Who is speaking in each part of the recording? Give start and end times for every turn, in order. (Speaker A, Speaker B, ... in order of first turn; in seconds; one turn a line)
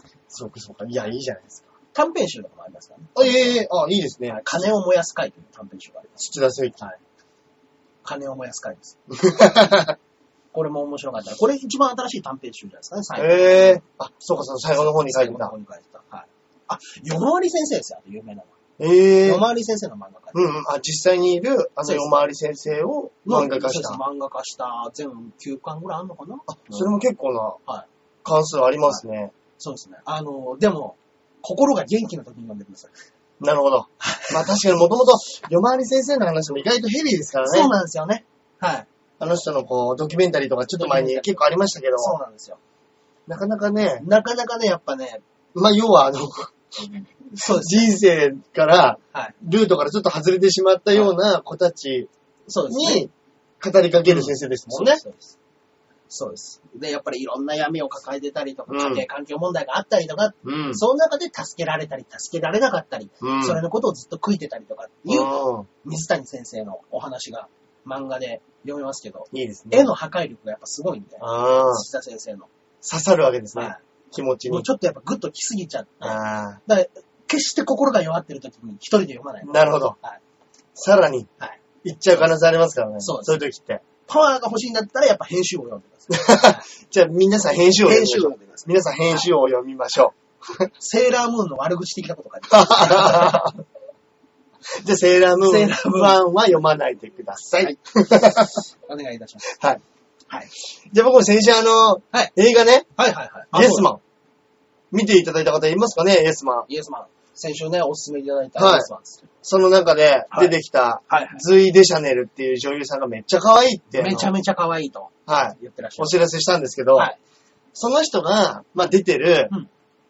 Speaker A: 0.3-1.6
Speaker B: 1.9-3.6
Speaker A: 3.1-4.4
Speaker B: 4.3-6.3
Speaker A: 6.2-6.8
Speaker B: 8.0-9.0
Speaker A: 9.1-9.9
Speaker B: 10.5-13.8
Speaker A: 13.2-15.5
Speaker B: 14.8-18.5
Speaker A: 18.8-19.4
Speaker B: 19.2-20.4
Speaker A: 20.3-24.0
Speaker B: 21.8-22.2
Speaker B: 23.2-26.9
Speaker A: 26.5-27.6
Speaker A: 28.2-29.3
Speaker B: 29.6-32.9
Speaker A: 33.4-37.7
Speaker B: 34.0-34.6
Speaker B: 37.4-38.9
Speaker A: 39.2-42.2
Speaker B: 40.8-41.4
Speaker B: 42.0-42.6
Speaker A: 43.3-44.0
Speaker B: 44.0-45.2
Speaker A: 45.5-52.1
Speaker B: 47.3-47.9
Speaker B: 52.5-53.1
Speaker A: 52.7-55.0
Speaker B: 54.0-55.3
Speaker B: 56.1-72.5
Speaker A: 58.7-59.0
Speaker A: 60.4-60.8
Speaker A: 63.2-63.6
Speaker A: 65.1-65.7
Speaker A: 69.3-69.9
Speaker A: 71.2-71.8
Speaker A: 72.8-74.7
Speaker B: 73.5-73.8
Speaker B: 74.5-80.2
Speaker A: 76.0-76.6
Speaker A: 79.4-80.0
Speaker A: 80.8-81.3
Speaker A: 81.8-83.8
Speaker B: 83.0-83.4
Speaker B: 84.0-86.6
Speaker A: 86.1-90.7
Speaker B: 87.8-89.3
Speaker B: 90.8-93.5
Speaker A: 92.5-93.6
Speaker A: 94.8-98.6
Speaker B: 95.4-96.2
Speaker B: 98.7-99.5
Speaker A: 99.5-99.8
Speaker A: 100.8-102.9
Speaker B: 103.0-103.9
Speaker A: 103.5-104.0
Speaker A: 104.9-106.7
Speaker B: 106.7-109.3
Speaker A: 108.6-108.9
Speaker A: 109.4-114.3
Speaker B: 110.3-110.6
Speaker B: 111.1-111.4
Speaker B: 113.9-116.2
Speaker A: 115.3-117.1
Speaker A: 117.7-119.5